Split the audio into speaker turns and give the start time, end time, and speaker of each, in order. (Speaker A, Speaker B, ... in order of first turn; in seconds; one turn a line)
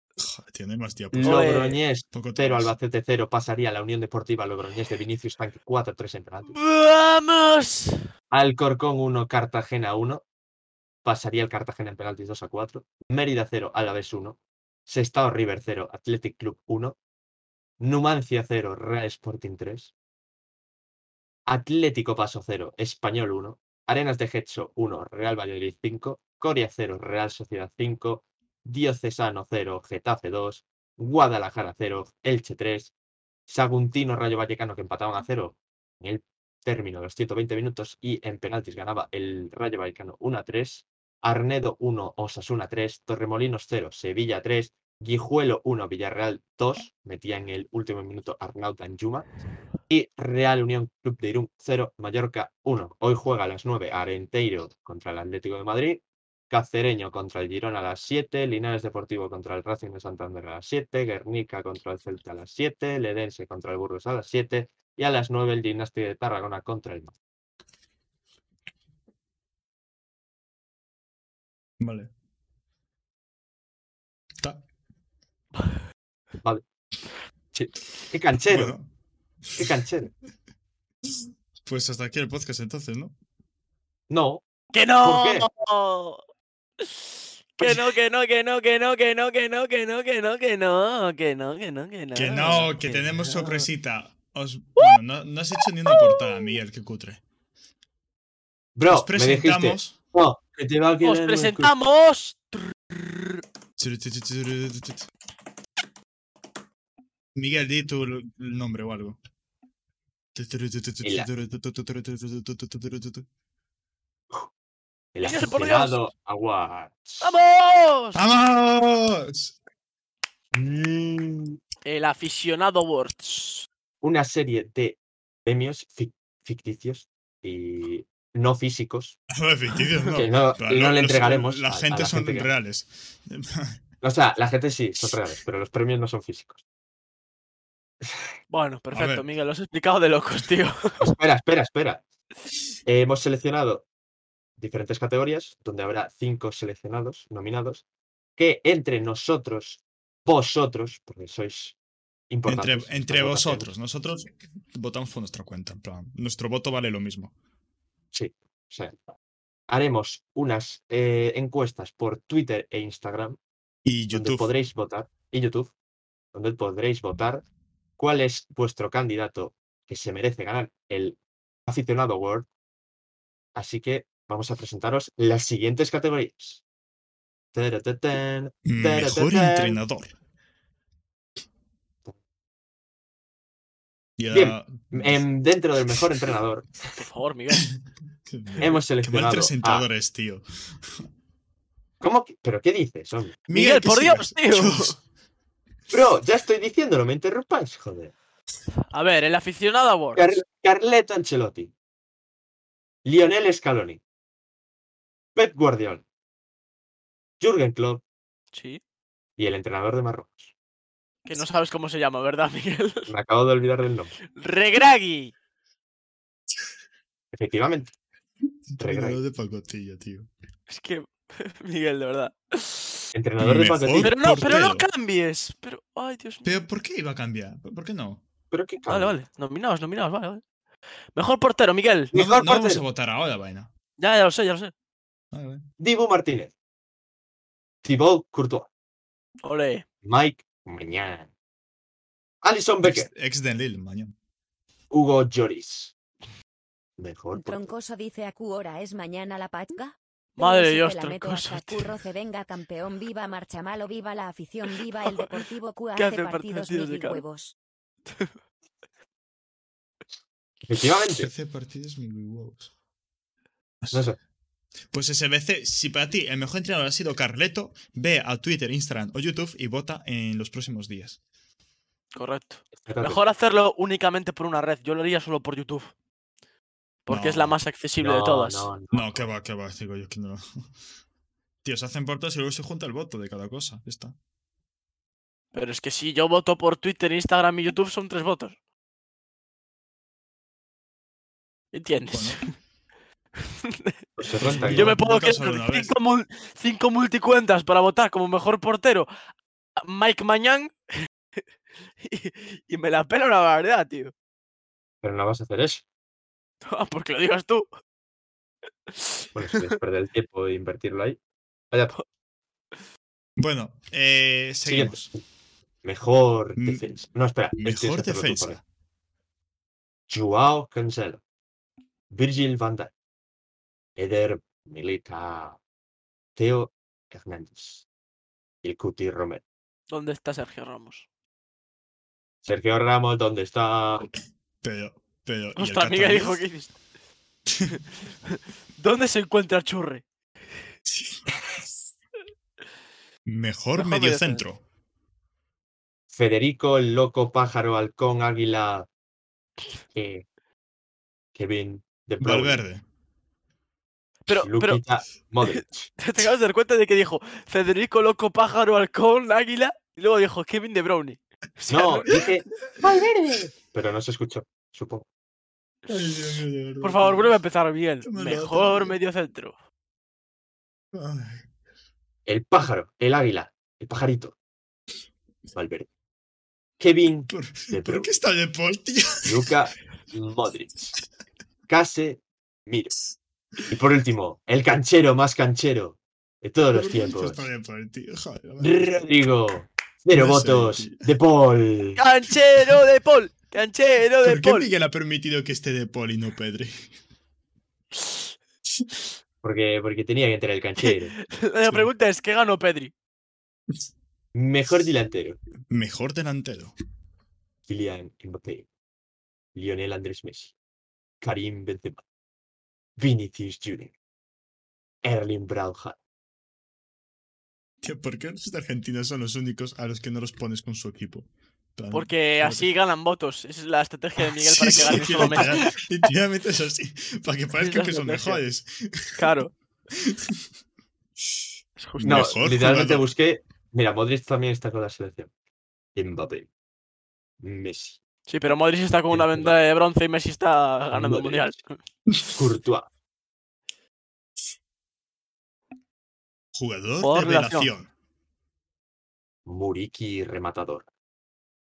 Speaker A: 0.2-1.5
Speaker B: 1.1-6.5
Speaker C: 1.2-1.8
Speaker A: 2.1-2.7
Speaker C: 6.5-8.0
Speaker B: 8.3-10.2
Speaker B: 11.1-17.0
Speaker B: 17.8-19.9
Speaker B: 21.5-32.9
Speaker B: 33.5-49.3
Speaker B: 49.9-67.1
Speaker A: 71.8-72.1
Speaker B: 77.5-78.8
Speaker A: 78.5-78.9
Speaker B: 79.6-80.1
Speaker A: 81.7-83.1
Speaker B: 84.1-84.4
Speaker C: 84.7-86.2
Speaker B: 85.0-85.5
Speaker C: 86.8-92.8
Speaker A: 92.2-97.2
Speaker B: 92.8-93.6
Speaker C: 95.9-96.5
Speaker B: 98.8-101.7
Speaker A: 98.9-100.0
Speaker C: 101.0-103.4
Speaker A: 103.8-105.1
Speaker A: 107.3-109.2
Speaker A: 110.3-113.3
Speaker B: 111.0-111.3
Speaker B: 115.1-117.3
Speaker C: 115.2-116.0
Speaker C: 117.2-118.2
Speaker A: 118.2-119.6
Speaker B: 120.5-121.6
Speaker C: 121.8-123.7
Speaker B: 124.0-129.2
Speaker A: 129.3-133.8
Speaker B: 130.1-132.5
Speaker B: 134.0-136.6
Speaker B: 138.0-138.3
Speaker C: 138.5-141.1
Speaker A: 138.9-139.3
Speaker B: 141.0-142.0
Speaker B: 142.9-143.9
Speaker B: 144.6-147.8
Speaker B: 148.4-151.8
Speaker B: 152.3-153.7
Speaker A: 152.5-157.3
Speaker B: 158.1-159.0
Speaker B: 159.7-163.4
Speaker A: 163.8-164.5
Speaker B: 164.1-165.7
Speaker B: 166.3-167.4
Speaker B: 168.0-172.5
Speaker B: 173.6-176.6
Speaker B: 177.5-179.8
Speaker A: 178.7-180.2
Speaker A: 184.2-185.2
Speaker B: 184.3-187.0
Speaker C: 186.9-187.7
Speaker A: 187.8-190.4
Speaker B: 188.6-189.9
Speaker B: 192.0-193.4
Speaker A: 193.5-195.0
Speaker C: 193.5-194.9
Speaker B: 195.9-198.1
Speaker C: 198.9-200.4
Speaker B: 200.2-201.7
Speaker B: 203.1-204.0
Speaker B: 205.4-206.0
Speaker B: 207.4-208.0
Speaker C: 208.5-208.8
Speaker B: 209.4-210.5
Speaker C: 211.2-213.1
Speaker B: 213.1-214.1
Speaker C: 214.4-215.3
Speaker B: 217.3-217.9
Speaker A: 218.7-220.3
Speaker B: 218.8-219.2
Speaker C: 220.7-223.1
Speaker B: 223.1-224.2
Speaker A: 223.4-224.8
Speaker C: 224.0-226.5
Speaker A: 226.4-228.2
Speaker B: 228.5-229.2
Speaker C: 228.9-230.4
Speaker C: 231.2-232.1
Speaker B: 232.1-232.8
Speaker A: 232.1-233.7
Speaker C: 234.0-234.7
Speaker A: 235.3-235.7
Speaker B: 235.8-236.5
Speaker B: 237.8-238.7
Speaker C: 239.4-239.8
Speaker B: 240.0-241.3
Speaker B: 242.4-243.1
Speaker A: 242.8-244.1
Speaker B: 244.9-245.9
Speaker B: 247.0-247.7
Speaker D: 247.3-257.6
Speaker C: 250.4-251.9
Speaker C: 256.0-257.2
Speaker C: 258.1-258.3
Speaker B: 260.7-261.3
Speaker A: 261.2-262.7
Speaker A: 263.8-264.1
Speaker B: 263.9-264.2
Speaker A: 264.9-271.2
Speaker C: 272.1-275.9
Speaker B: 272.8-273.2
Speaker C: 277.1-278.7
Speaker A: 277.1-277.6
Speaker B: 278.0-279.3
Speaker A: 278.9-280.6
Speaker A: 281.6-284.2
Speaker C: 285.5-288.6
Speaker C: 291.7-292.4
Speaker A: 292.1-292.4
Speaker C: 293.4-293.9
Speaker B: 294.2-295.0
Speaker A: 294.4-295.9
Speaker C: 294.6-299.1
Speaker C: 299.8-301.1
Speaker C: 302.0-304.1
Speaker B: 305.0-305.8
Speaker C: 306.6-307.7
Speaker C: 308.9-309.8
Speaker B: 309.4-311.2
Speaker B: 311.7-312.0
Speaker A: 313.4-315.1
Speaker B: 314.7-315.2
Speaker B: 315.8-318.6
Speaker A: 316.6-316.9
Speaker A: 317.6-318.6
Speaker B: 320.1-321.2
Speaker B: 322.1-322.9
Speaker B: 324.0-325.6
Speaker B: 326.4-327.9
Speaker B: 328.6-329.4
Speaker C: 329.9-331.1
Speaker B: 332.4-334.1
Speaker A: 334.6-336.4
Speaker C: 335.6-336.8
Speaker C: 338.3-340.0
Speaker A: 340.9-341.2
Speaker A: 343.3-344.6
Speaker C: 343.8-344.4
Speaker B: 346.1-348.9
Speaker B: 349.9-350.2
Speaker B: 351.4-352.6
Speaker A: 352.2-352.8
Speaker C: 354.3-354.8
Speaker B: 354.4-355.9
Speaker C: 355.4-362.3
Speaker B: 361.7-365.1
Speaker A: 365.9-367.3
Speaker C: 366.2-369.5
Speaker A: 368.0-368.9
Speaker A: 370.9-371.4
Speaker B: 372.3-374.4
Speaker B: 375.6-375.9
Speaker B: 376.8-378.1
Speaker A: 377.3-379.5
Speaker B: 379.2-380.9
Speaker B: 381.7-382.9
Speaker B: 383.7-387.5
Speaker A: 386.7-388.9
Speaker B: 388.6-392.0
Speaker A: 390.1-391.1
Speaker C: 392.0-394.7
Speaker A: 394.2-396.9
Speaker B: 399.4-401.1
Speaker C: 400.8-402.9
Speaker B: 404.3-405.4
Speaker A: 405.7-406.7
Speaker B: 407.7-408.7
Speaker B: 409.6-410.5
Speaker B: 411.2-412.0
Speaker B: 413.0-413.9
Speaker B: 415.0-416.0
Speaker A: 417.8-422.7
Speaker C: 421.9-425.9
Speaker A: 424.2-429.2
Speaker B: 424.8-425.6
Speaker C: 427.6-428.4
Speaker C: 429.2-429.5
Speaker A: 430.1-430.4
Speaker C: 431.8-432.4
Speaker A: 432.0-433.1
Speaker B: 432.0-435.3
Speaker B: 435.9-436.5
Speaker B: 437.4-438.0
Speaker C: 438.3-441.7
Speaker B: 439.1-439.6
Speaker B: 440.9-441.5
Speaker B: 442.3-442.9
Speaker A: 446.5-447.9
Speaker C: 447.0-447.7
Speaker B: 449.5-450.9